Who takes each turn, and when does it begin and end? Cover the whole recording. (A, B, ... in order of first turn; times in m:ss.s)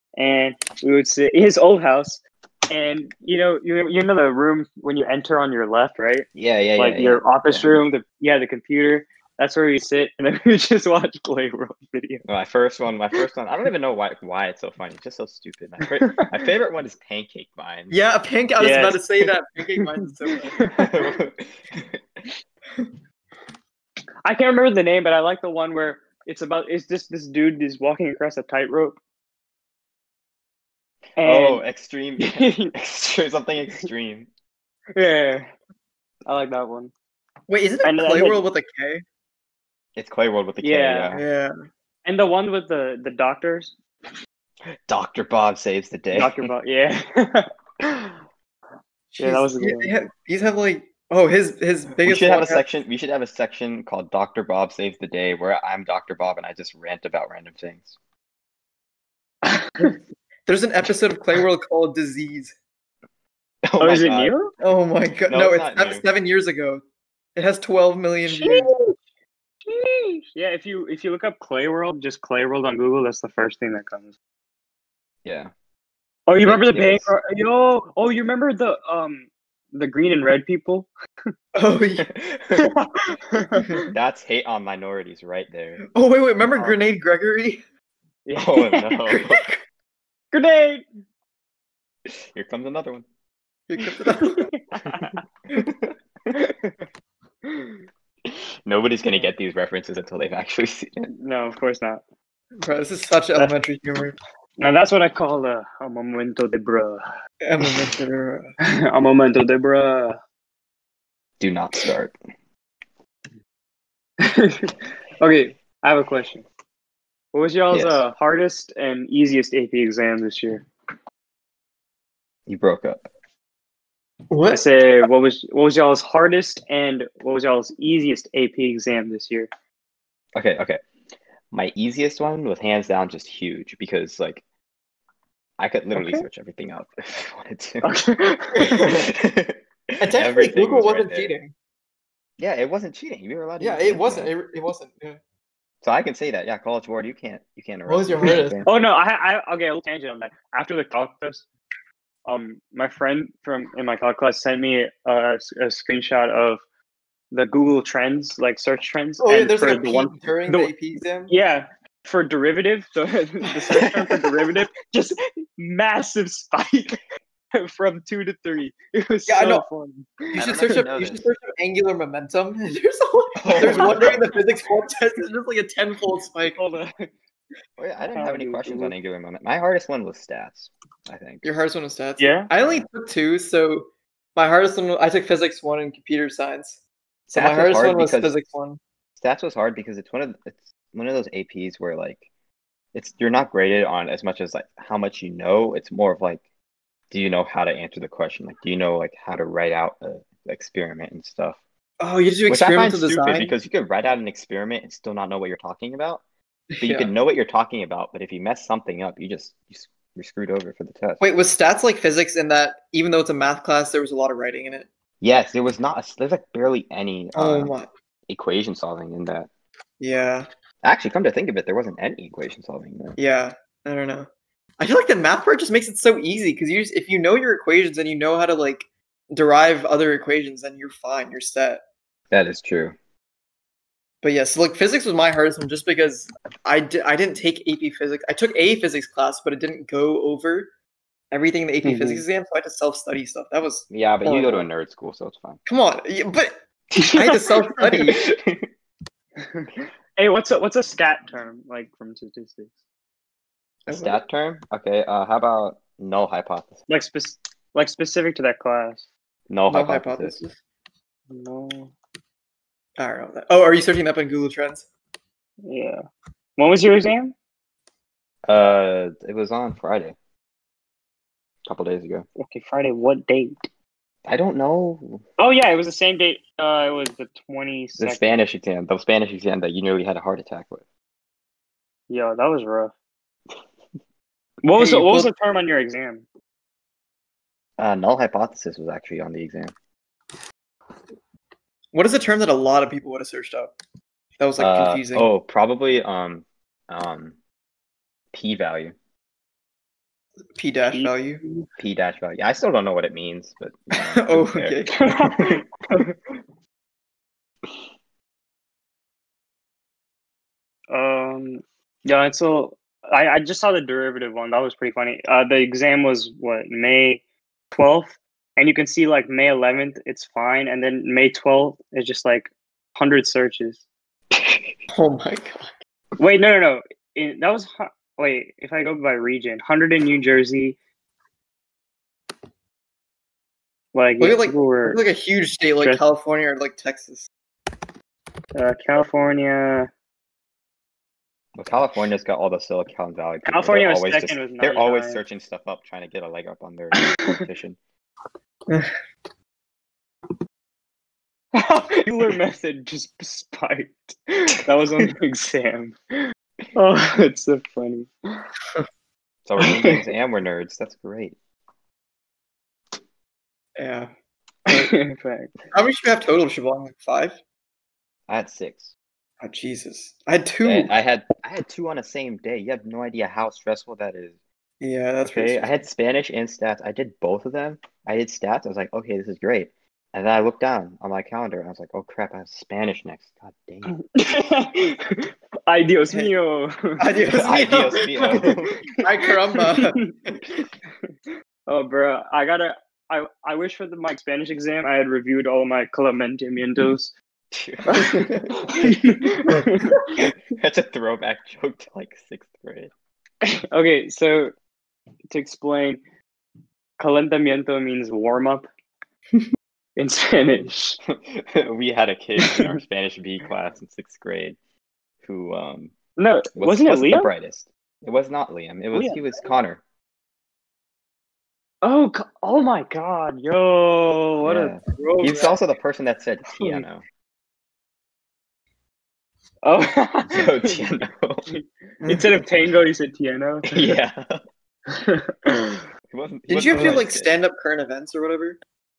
0:00.2-0:12.2 A
0:06.3-0:07.7 B
0:12.2-0:17.9 B
0:15.8-0:16.3 A
0:17.9-0:20.6 C
0:18.6-0:19.2 A
0:19.8-0:21.0 A
0:20.7-0:22.0 B
0:24.2-0:29.0 A
0:31.2-0:31.6 A
0:31.2-0:34.3 B
0:32.2-0:32.7 A
0:34.9-0:35.5 A
0:36.2-0:36.9 A
0:37.5-0:39.0 C
0:37.8-0:38.4 A
0:40.0-0:41.2 B
0:40.6-0:41.2 A
0:41.1-0:41.5 C
0:42.0-0:43.7 A
0:44.9-0:46.5 B
0:46.1-0:48.1 A
0:49.1-0:52.7 C
0:49.2-0:49.9 A
0:52.0-0:58.0 B
0:59.4-1:00.0 A
1:00.5-1:02.5 C
1:03.6-1:04.3 B
1:03.8-1:04.5 A
1:04.6-1:06.8 C
1:05.2-1:06.0 B
1:07.4-1:08.7 C
1:08.3-1:09.0 A
1:09.6-1:14.1 A
1:15.2-1:15.5 B
1:16.3-1:20.9 A
1:16.4-1:17.1 B
1:21.5-1:22.1 C
1:22.0-1:22.7 B
1:22.6-1:23.9 A
1:23.9-1:25.8 B
1:25.9-1:27.6 C
1:28.2-1:29.0 A
1:28.4-1:29.5 B
1:29.1-1:29.5 C
1:30.3-1:30.8 A
1:32.1-1:33.0 B
1:33.7-1:34.5 C
1:33.8-1:35.2 A
1:34.8-1:36.3 B
1:36.3-1:36.8 A
1:37.4-1:37.8 A
1:38.3-1:41.1 B
1:41.1-1:42.0 A
1:42.6-1:44.2 C
1:44.6-1:47.0 A
1:47.4-1:48.5 C
1:48.6-1:50.2 A
1:51.4-1:52.1 B
1:54.2-1:56.4 A
1:57.3-2:00.6 A
1:57.7-1:58.0 B
2:02.5-2:03.1 B
2:04.3-2:04.6 C
2:04.5-2:09.5 A
2:10.4-2:10.8 B
2:11.5-2:14.4 B
2:15.6-2:17.9 B
2:15.9-2:16.2 A
2:17.8-2:19.0 A
2:18.6-2:21.3 B
2:20.0-2:21.5 C
2:22.4-2:24.3 B
2:23.6-2:25.2 C
2:25.8-2:28.7 B
2:27.9-2:28.6 C
2:28.6-2:31.5 A
2:32.2-2:36.6 A
2:37.3-2:40.7 A
2:39.2-2:41.3 C
2:41.3-2:47.0 A
2:43.8-2:44.2 B
2:47.5-2:50.1 A
2:49.3-2:49.6 C
2:50.3-2:56.6 C
2:50.3-2:51.3 B
2:53.4-2:54.3 B
2:53.6-2:54.2 A
2:56.5-2:57.1 A
2:57.8-3:01.5 B
2:58.1-2:58.9 A
3:01.4-3:06.8 C
3:02.2-3:02.5 A
3:07.3-3:08.4 B
3:07.3-3:08.8 C
3:09.2-3:12.2 B
3:12.9-3:16.4 B
3:17.1-3:21.6 B
3:22.0-3:23.5 C
3:22.5-3:26.2 B
3:26.7-3:27.1 C
3:26.8-3:31.2 B
3:31.2-3:34.9 C
3:35.2-3:37.7 B
3:37.3-3:37.9 C
3:38.3-3:39.5 B
3:40.0-3:40.5 C
3:40.8-3:43.2 B
3:43.2-3:51.8 C
3:52.3-3:53.0 B
3:54.2-4:00.7 C
4:01.3-4:04.7 C
4:01.8-4:02.2 A
4:03.9-4:05.6 B
4:05.6-4:08.2 C
4:07.0-4:07.4 A
4:07.9-4:08.7 B
4:09.4-4:12.8 A
4:13.8-4:16.8 B
4:13.9-4:14.2 C
4:16.9-4:19.1 A
4:19.5-4:20.4 B
4:19.7-4:20.6 C
4:21.3-4:21.9 A
4:23.0-4:24.9 C
4:25.6-4:26.0 A
4:26.6-4:27.3 A
4:28.4-4:30.2 B
4:31.6-4:32.3 B
4:32.4-4:33.7 A
4:34.2-4:35.2 B
4:35.4-4:38.3 A
4:38.0-4:40.8 B
4:42.1-4:42.9 A
4:44.6-4:46.2 A
4:44.8-4:45.3 C
4:47.8-4:49.7 B
4:51.9-4:53.7 C
4:54.4-4:55.3 C
4:54.6-4:57.4 B
4:58.3-4:58.9 B
5:00.6-5:01.4 C
5:00.9-5:01.6 A
5:01.8-5:05.6 B
5:03.9-5:05.0 C
5:04.9-5:06.1 A
5:10.9-5:23.8 A
5:24.3-5:24.8 B
5:24.9-5:25.7 C
5:26.2-5:30.8 A
5:33.9-5:35.0 A
5:34.2-5:37.3 C
5:38.5-5:39.9 A
5:41.6-5:47.8 B
5:43.4-5:45.2 A
5:47.0-5:47.4 A
5:48.7-5:48.9 C
5:51.5-5:58.4 A
5:59.4-6:01.4 B
5:59.6-6:00.0 C
6:03.8-6:04.1 C
6:04.7-6:04.9 C
6:04.7-6:05.5 A
6:05.7-6:07.4 C
6:08.3-6:08.9 B
6:09.4-6:10.9 C
6:10.6-6:14.4 B
6:14.8-6:15.8 C
6:15.2-6:24.0 B
6:24.0-6:27.0 A
6:27.0-6:30.4 C
6:27.3-6:28.8 B
6:29.8-6:30.1 A
6:31.7-6:37.1 A
6:37.5-6:38.4 B
6:37.9-6:40.2 A
6:37.9-6:38.5 C
6:40.2-6:42.9 B
6:43.4-6:44.5 A
6:45.3-6:46.0 A
6:47.0-6:48.7 A
6:50.0-6:51.0 A
6:50.5-6:54.6 B
6:52.4-6:52.7 A
6:55.2-6:55.9 B
6:56.2-6:57.3 A
6:56.5-6:59.8 B
6:58.9-6:59.4 A
7:01.8-7:05.6 A
7:04.4-7:07.0 B
7:09.6-7:13.8 A
7:10.3-7:11.4 B
7:12.0-7:12.4 C
7:13.7-7:14.4 B
7:14.9-7:15.8 A
7:16.1-7:17.3 B
7:16.5-7:18.6 C